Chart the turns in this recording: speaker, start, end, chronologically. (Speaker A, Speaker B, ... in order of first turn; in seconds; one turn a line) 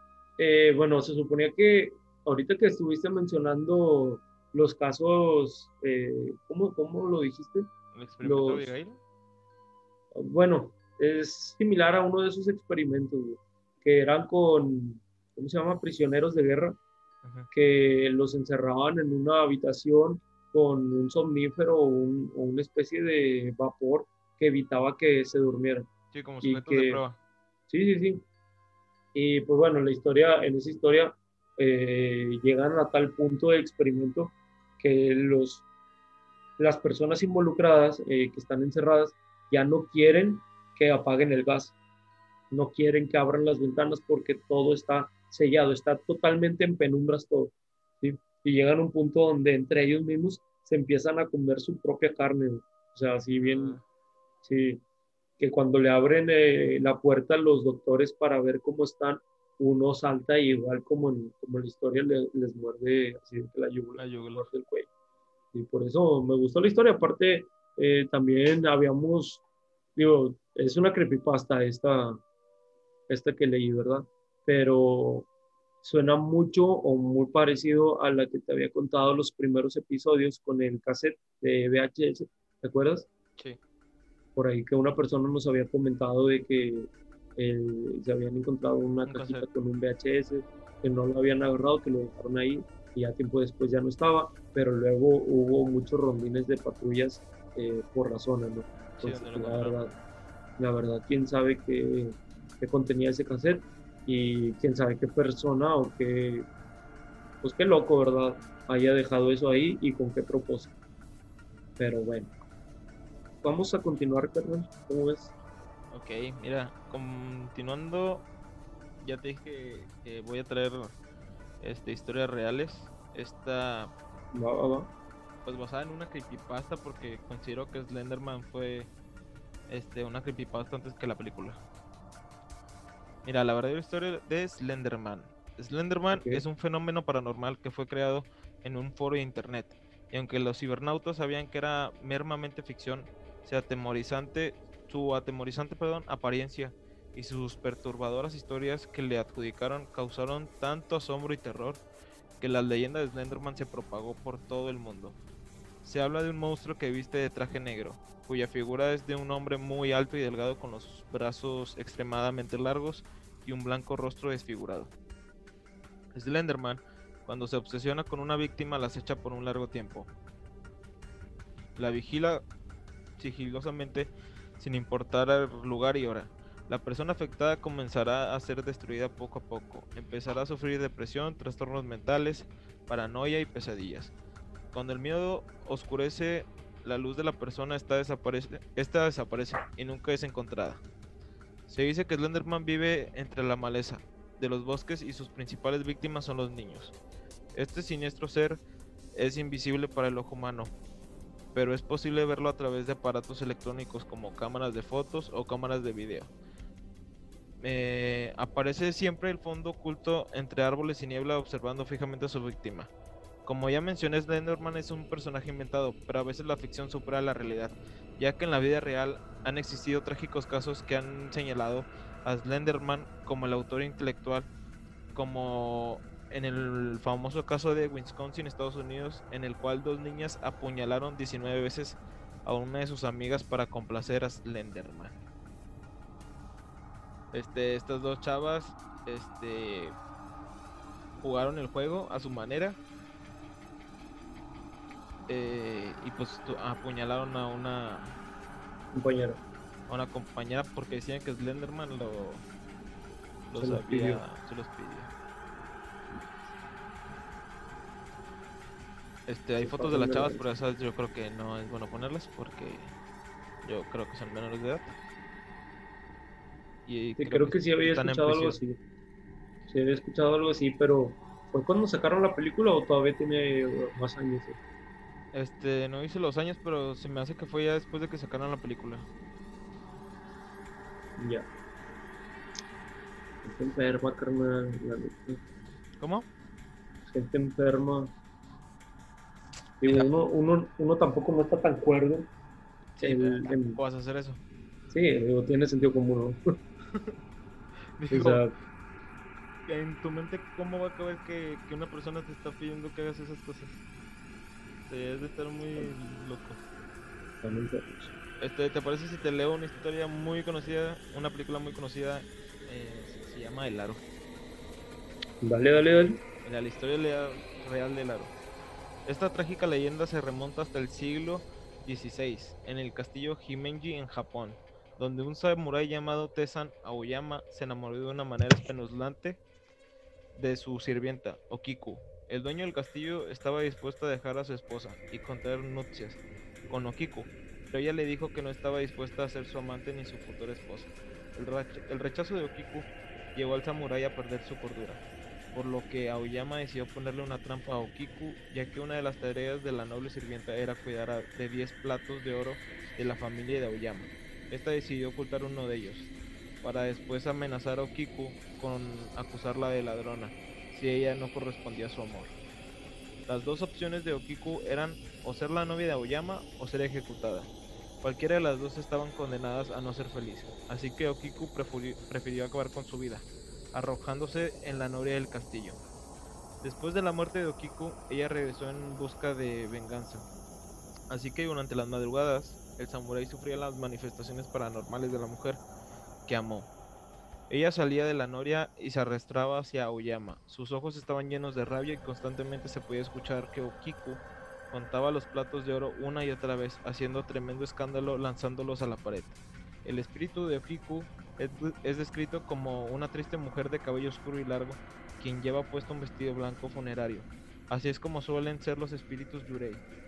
Speaker A: 0.4-7.7
Speaker B: 7.9-9.0
Speaker A: 8.2-8.7
Speaker A: 10.1-16.8
Speaker B: 17.2-17.5
Speaker A: 17.5-25.9
Speaker B: 26.1-27.2
Speaker A: 26.4-27.0
Speaker A: 27.7-28.2
Speaker A: 29.1-35.6
Speaker A: 36.6-41.7
Speaker A: 42.5-53.8
Speaker B: 53.4-53.8
Speaker A: 54.4-54.8
Speaker A: 55.4-64.9
Speaker B: 64.0-64.5
Speaker A: 65.5-69.4
Speaker A: 70.0-72.2
Speaker A: 73.1-75.3
Speaker A: 75.8-83.1
Speaker A: 84.4-99.9
Speaker B: 89.0-89.5
Speaker B: 98.8-99.8
Speaker A: 100.6-106.5
Speaker A: 107.4-110.7
Speaker A: 111.8-112.3
Speaker A: 113.4-115.3
Speaker B: 115.9-118.3
Speaker B: 119.0-121.0
Speaker B: 121.6-123.9
Speaker A: 124.3-124.9
Speaker B: 125.5-128.9
Speaker B: 129.7-131.6
Speaker B: 133.2-151.8
Speaker A: 136.1-136.4
Speaker B: 152.4-155.2
Speaker B: 155.8-164.9
Speaker B: 166.1-170.1
Speaker B: 171.8-172.4
Speaker B: 173.2-184.1
Speaker B: 184.7-190.8
Speaker B: 191.7-196.9
Speaker B: 197.6-198.6
Speaker B: 199.2-200.7
Speaker B: 201.5-206.3
Speaker B: 207.6-212.9
Speaker B: 213.4-224.5
Speaker B: 225.2-235.2
Speaker B: 237.3-240.0
Speaker B: 241.2-242.8
Speaker B: 245.3-248.2
Speaker A: 248.9-249.4
Speaker B: 249.9-252.5
Speaker B: 253.5-255.1
Speaker A: 253.6-254.2
Speaker B: 259.3-262.9
Speaker A: 259.6-260.4
Speaker B: 263.6-265.0
Speaker B: 266.9-268.6
Speaker A: 267.2-268.8
Speaker A: 269.7-274.6
Speaker B: 275.3-279.1
Speaker A: 281.2-281.5
Speaker A: 283.4-285.4
Speaker B: 286.0-286.3
Speaker A: 287.1-288.1
Speaker A: 289.8-292.3
Speaker B: 289.9-290.2
Speaker B: 293.0-294.4
Speaker A: 293.0-293.8
Speaker A: 294.9-296.4
Speaker B: 298.0-298.4
Speaker A: 298.1-298.5
Speaker B: 299.7-303.8
Speaker B: 304.9-306.6
Speaker A: 307.4-308.1
Speaker B: 308.4-314.0
Speaker A: 315.4-316.2
Speaker B: 316.4-318.3
Speaker B: 319.1-329.4
Speaker B: 330.4-356.1
Speaker B: 356.6-362.4
Speaker B: 363.3-367.5
Speaker B: 368.0-375.8
Speaker B: 376.6-380.3
Speaker B: 381.1-385.6
Speaker B: 386.3-386.7
Speaker B: 387.5-409.8